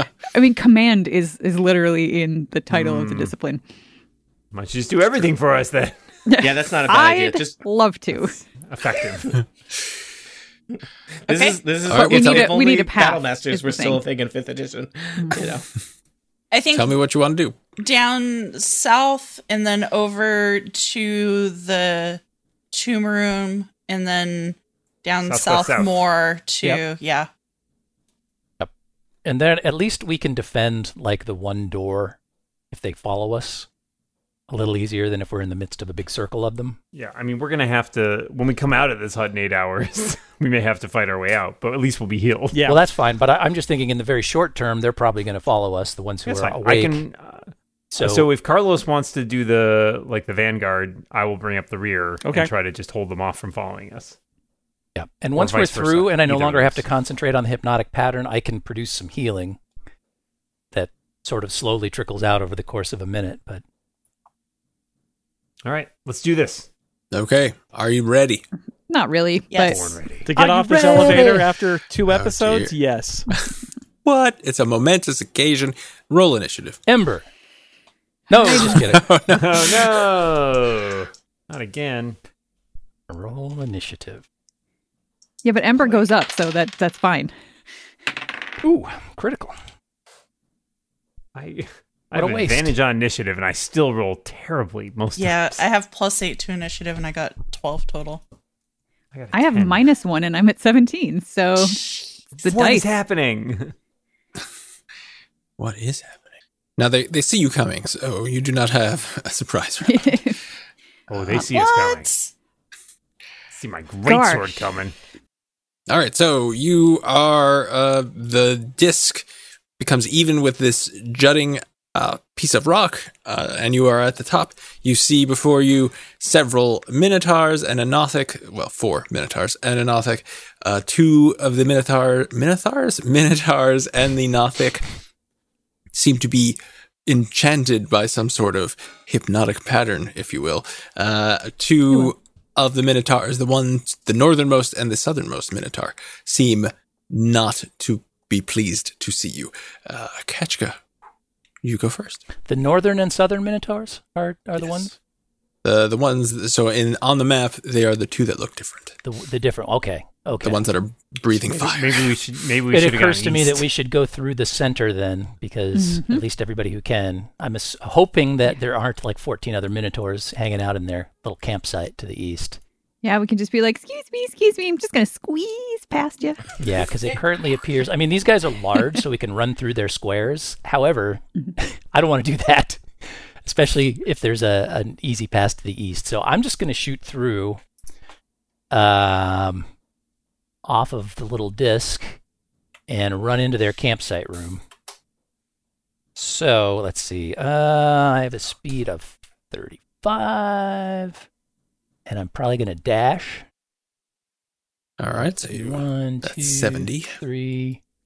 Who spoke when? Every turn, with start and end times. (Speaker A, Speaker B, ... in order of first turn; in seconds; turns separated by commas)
Speaker A: 0.3-3.6, Speaker B: 2.7-3.3, Speaker B: 4.5-6.0, Speaker A: 6.2-8.4, Speaker C: 6.4-7.6, Speaker B: 8.7-9.4, Speaker C: 11.3-15.6, Speaker D: 11.8-12.6, Speaker A: 11.9-14.0, Speaker E: 16.5-16.9, Speaker D: 16.7-17.6, Speaker E: 17.8-27.3, Speaker B: 25.2-26.0, Speaker F: 29.2-32.2, Speaker F: 32.7-33.7, Speaker F: 34.5-36.8, Speaker B: 36.9-42.7, Speaker G: 42.5-42.8, Speaker F: 42.6-47.0, Speaker B: 46.2-54.1, Speaker F: 47.9-48.3, Speaker G: 52.2-52.5, Speaker F: 55.0-59.6, Speaker B: 55.4-56.8, Speaker F: 60.7-63.6, Speaker B: 65.6-66.7, Speaker D: 67.1-68.4, Speaker A: 68.9-69.9, Speaker E: 69.5-70.0, Speaker B: 69.6-70.3, Speaker G: 70.2-73.3, Speaker F: 70.3-71.5, Speaker D: 72.0-72.7, Speaker D: 74.0-76.8, Speaker F: 76.9-77.2, Speaker F: 78.3-79.1, Speaker D: 78.5-80.1, Speaker B: 79.3-82.2, Speaker F: 83.1-84.2, Speaker A: 85.4-87.3, Speaker F: 88.6-89.5, Speaker B: 91.3-95.6, Speaker F: 92.1-92.7, Speaker E: 95.2-98.2, Speaker B: 99.1-99.8, Speaker A: 99.3-101.8, Speaker E: 101.6-102.1, Speaker A: 102.4-102.9, Speaker B: 102.4-103.7, Speaker D: 105.6-110.2, Speaker A: 109.8-110.4, Speaker B: 111.1-112.1, Speaker E: 111.3-112.3, Speaker B: 113.5-114.9, Speaker A: 114.0-114.6, Speaker D: 115.9-119.3, Speaker D: 119.8-134.8, Speaker D: 135.9-150.8, Speaker D: 151.6-152.2, Speaker F: 152.4-154.9, Speaker D: 155.6-159.0, Speaker F: 159.0-160.6, Speaker D: 160.4-162.1, Speaker B: 161.4-163.6, Speaker F: 162.7-172.6, Speaker A: 165.7-166.2, Speaker A: 173.0-176.5, Speaker F: 176.6-182.8, Speaker F: 183.4-187.6, Speaker F: 188.7-189.7, Speaker F: 190.6-192.2, Speaker F: 192.9-194.6, Speaker F: 196.2-201.2, Speaker F: 202.1-203.4, Speaker D: 205.0-207.2, Speaker F: 205.2-207.8